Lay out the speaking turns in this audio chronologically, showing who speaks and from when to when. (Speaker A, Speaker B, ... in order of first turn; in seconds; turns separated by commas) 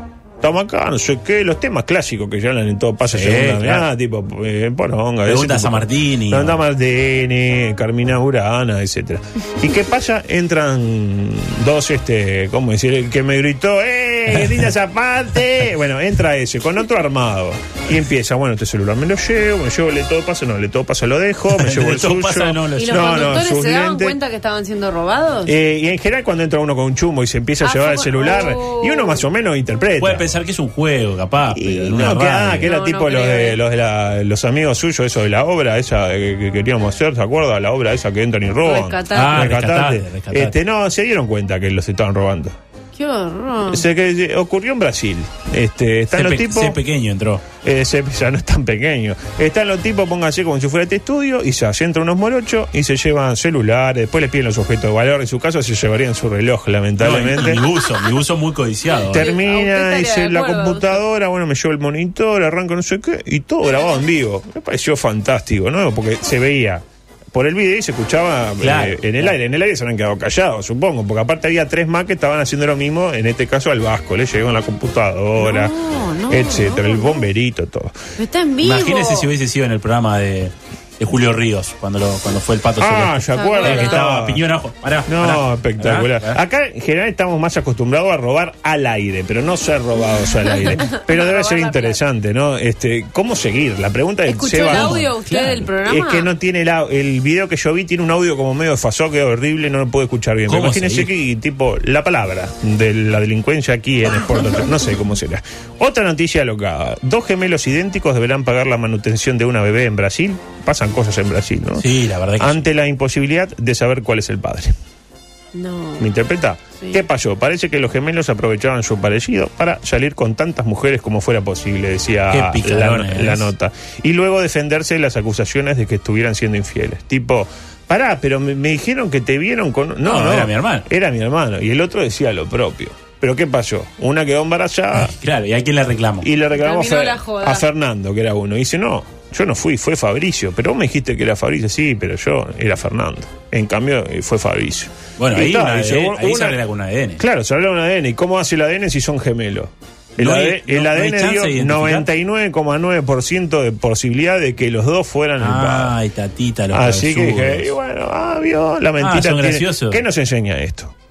Speaker A: 0.4-24.1, Speaker B: 3.1-3.9, Speaker B: 5.3-6.6, Speaker B: 21.5-23.2, Speaker C: 22.8-25.5, Speaker A: 25.4-30.3, Speaker C: 27.6-29.2, Speaker B: 30.0-32.7, Speaker A: 31.5-42.5, Speaker C: 32.6-33.6, Speaker C: 38.6-39.5, Speaker B: 39.1-40.5, Speaker C: 43.0-43.8, Speaker A: 43.7-46.8, Speaker B: 46.1-47.4, Speaker A: 47.6-57.7, Speaker B: 57.0-59.3, Speaker A: 59.1-75.7, Speaker C: 59.1-61.0, Speaker B: 68.6-69.3, Speaker C: 75.4-77.3, Speaker A: 76.3-78.0, Speaker C: 78.2-79.3, Speaker B: 78.6-86.4, Speaker A: 82.8-84.4, Speaker C: 83.3-84.0, Speaker A: 85.1-95.1, Speaker C: 90.5-92.0, Speaker C: 94.3-96.3, Speaker B: 94.7-95.7, Speaker A: 95.8-114.7, Speaker B: 100.5-101.1, Speaker B: 111.8-112.6, Speaker C: 115.5-116.1, Speaker A: 116.0-135.1, Speaker B: 122.3-123.5, Speaker B: 130.0-130.8, Speaker B: 134.9-136.3, Speaker A: 136.2-146.6, Speaker C: 136.6-137.6, Speaker B: 145.2-147.2, Speaker A: 147.2-155.9, Speaker B: 150.2-152.1, Speaker B: 155.4-157.7, Speaker A: 156.7-160.9, Speaker B: 159.0-160.0